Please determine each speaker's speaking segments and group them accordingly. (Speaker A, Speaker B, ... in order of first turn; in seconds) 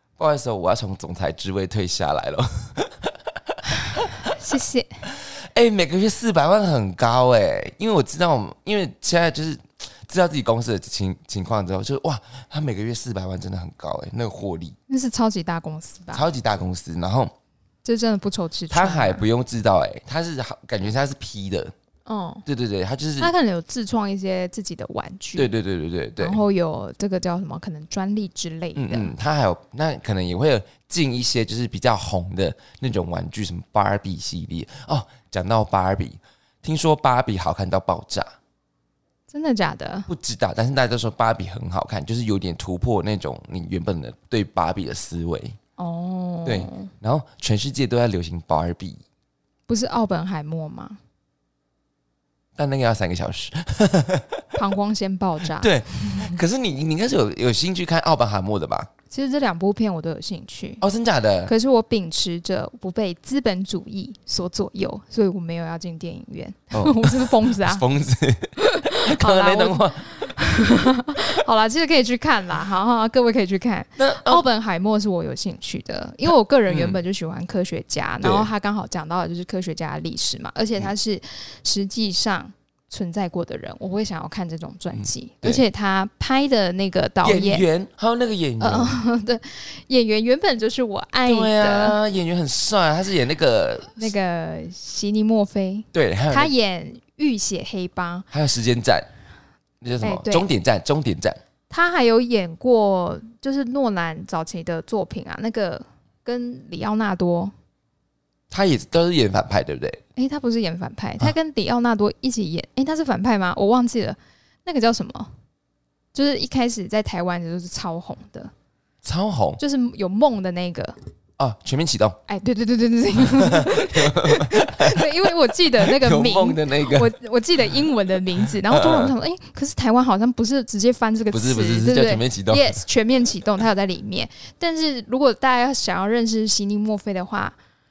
Speaker A: 0.2-4.1, 5.1-14.8, 16.1-17.3, 18.7-21.7, 22.4-23.3, 25.4-26.4, 28.8-38.3, 40.1-45.5, 46.5-49.0, 52.6-54.4, 55.6-58.9, 60.8-61.5, 66.7-70.9, 74.0-74.5, 76.7-77.0, 78.2-78.5, 85.0-85.6, 87.2-89.0, 91.2-94.1, 95.9-96.5, 98.3-99.1, 99.8-101.4, 108.5-110.0, 119.0-119.6, 121.4-122.2, 123.2-127.1, 128.7-129.1, 131.3-132.8
Speaker B: 3.8-5.0, 14.9-16.2, 17.8-19.2, 22.1-22.4, 23.2-25.5, 26.2-29.1, 39.3-40.1, 45.8-46.9, 49.7-51.0, 54.5-56.4, 59.1-60.8, 61.5-67.8, 68.6-87.7, 88.6-92.0, 94.0-98.3, 100.0-100.5, 101.7-107.5, 110.2-115.3, 116.1-118.5, 119.6-121.0, 122.3-137.5